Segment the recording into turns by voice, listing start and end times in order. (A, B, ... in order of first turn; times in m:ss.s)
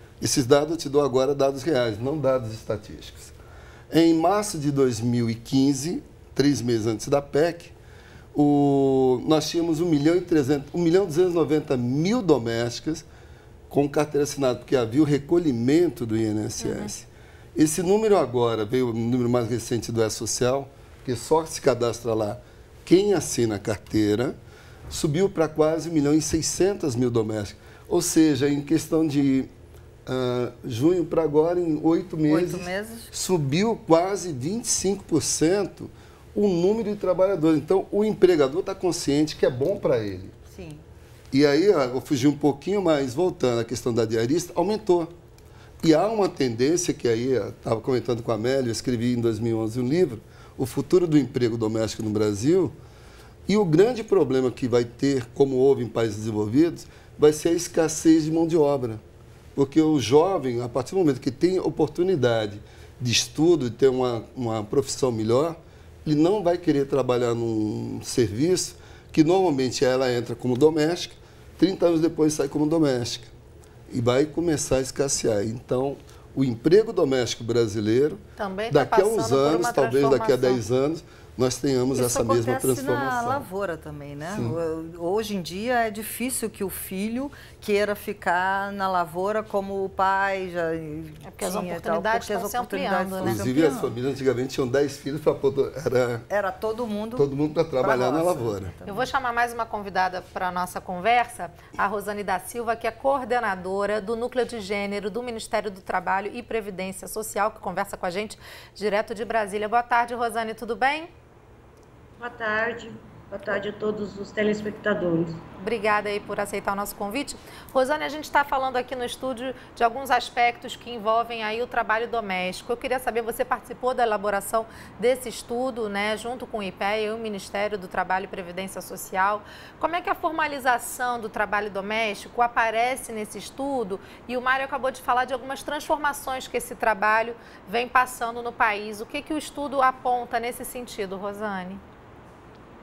0:00.2-0:03.3 A
0:03.9-0:07.7 A
0:08.3-0:13.0 A
0:13.7-0:24.3 A
0:16.6-0:16.9 B
0:24.9-0:29.5 A
0:30.0-0:40.3 A
0:32.3-0:33.1 C
0:40.5-0:40.8 C
0:41.3-0:45.1 A
0:45.8-0:52.7 A
0:53.5-0:59.0 A
0:59.5-1:13.3 A
1:13.9-1:23.4 A
1:18.4-1:20.6 B
1:21.9-1:34.0 C
1:24.3-1:24.6 A
1:31.2-1:33.8 B
1:33.2-1:36.2 A
1:36.3-1:39.1 C
1:37.2-1:38.7 A
1:38.8-1:51.1 B
1:52.2-1:55.4 D
1:55.6-2:21.8 B